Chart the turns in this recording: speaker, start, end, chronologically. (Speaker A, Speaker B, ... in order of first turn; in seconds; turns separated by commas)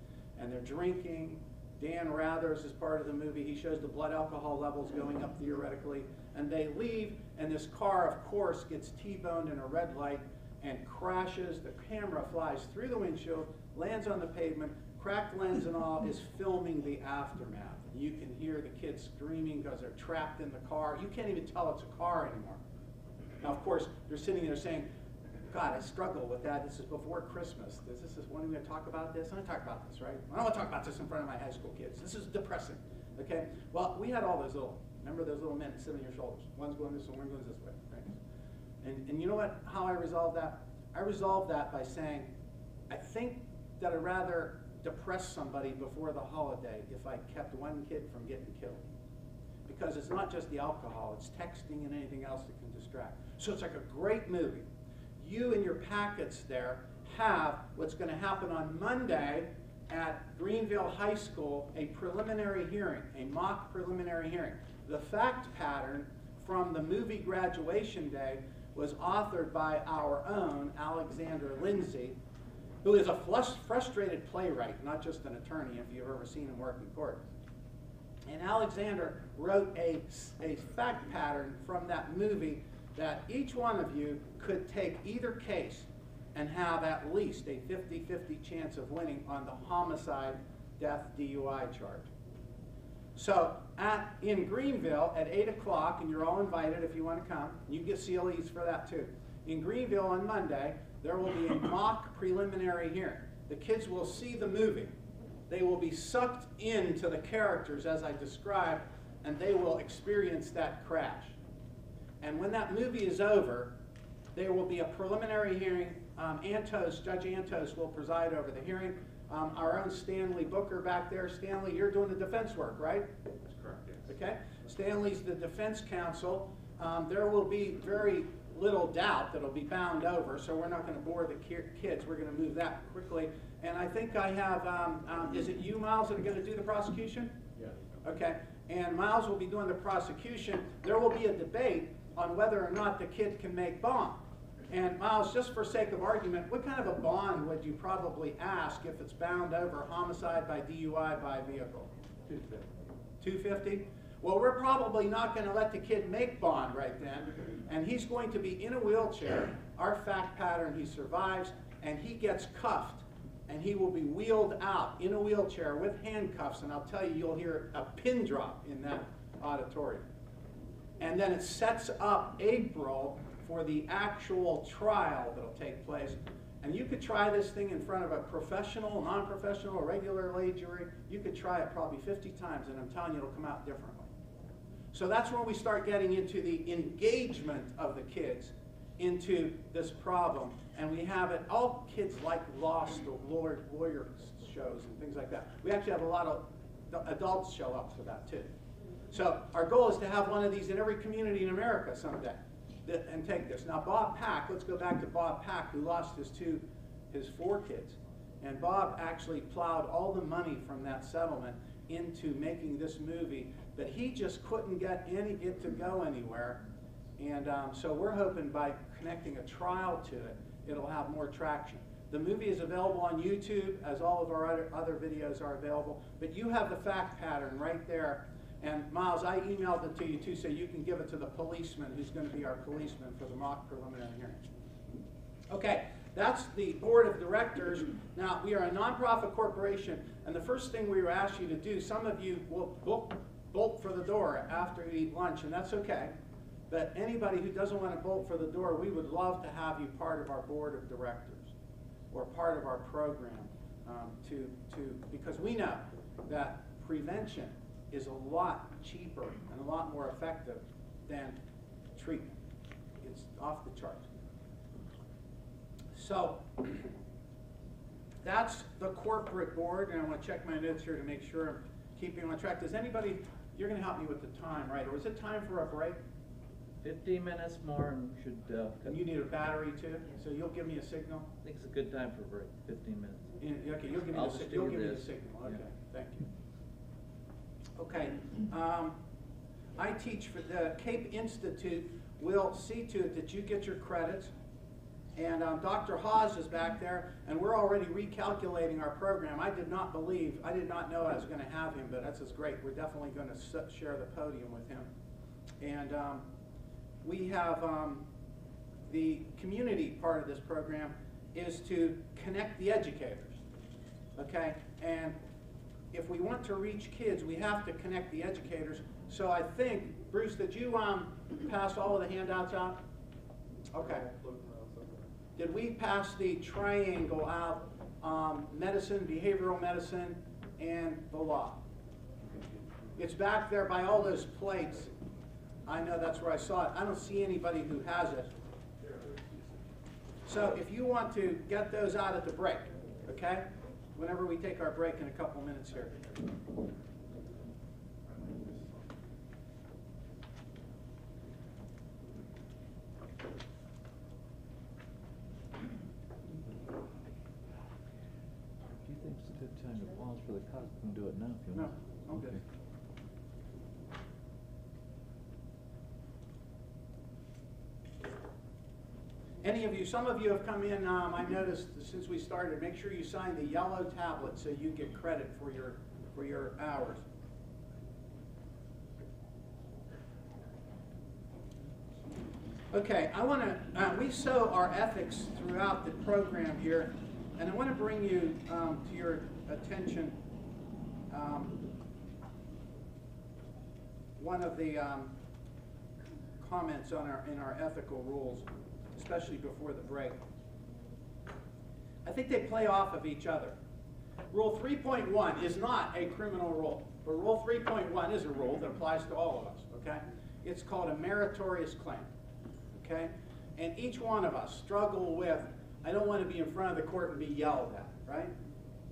Speaker A: 0.4-22.6, Speaker A: 23.4-24.9, Speaker A: 25.5-38.2, Speaker A: 38.8-42.3, Speaker A: 42.9-48.8, Speaker A: 49.7-54.7, Speaker A: 55.2-72.2, Speaker A: 72.8-77.2, Speaker A: 78.3-92.1, Speaker A: 93.2-104.9, Speaker A: 105.5-111.4, Speaker A: 112.2-113.7, Speaker A: 114.3-123.1, Speaker B: 123.5-124.0, Speaker A: 124.1-137.3, Speaker A: 138.0-144.2, Speaker A: 144.7-151.9, Speaker A: 153.2-170.1, Speaker A: 171.0-184.1, Speaker A: 184.9-198.5, Speaker A: 199.1-216.6, Speaker A: 217.2-234.4, Speaker A: 235.5-246.1, Speaker A: 246.7-251.5, Speaker A: 252.1-261.4, Speaker A: 262.0-262.4, Speaker A: 263.0-264.0, Speaker A: 265.9-266.7, Speaker A: 268.2-276.0, Speaker C: 276.8-279.0, Speaker A: 278.9-281.3, Speaker C: 281.4-283.3, Speaker A: 283.4-286.2, Speaker C: 284.1-285.5, Speaker A: 287.8-288.9, Speaker A: 289.8-294.3, Speaker A: 295.2-304.9, Speaker A: 305.6-306.2, Speaker A: 307.0-308.0, Speaker A: 308.9-313.4, Speaker A: 314.2-315.1, Speaker A: 315.9-322.8, Speaker A: 323.7-324.1, Speaker B: 323.8-325.1, Speaker A: 325.4-331.6, Speaker A: 333.0-334.9, Speaker A: 335.7-338.3, Speaker B: 338.8-339.4, Speaker A: 340.3-343.4, Speaker A: 344.0-346.0, Speaker B: 348.1-348.8, Speaker C: 358.8-362.4, Speaker A: 361.5-362.4, Speaker A: 369.4-377.0, Speaker A: 382.7-390.1, Speaker A: 391.1-391.6, Speaker A: 394.2-395.1, Speaker A: 396.4-400.2, Speaker A: 402.1-403.6, Speaker A: 404.3-412.1, Speaker A: 412.8-418.3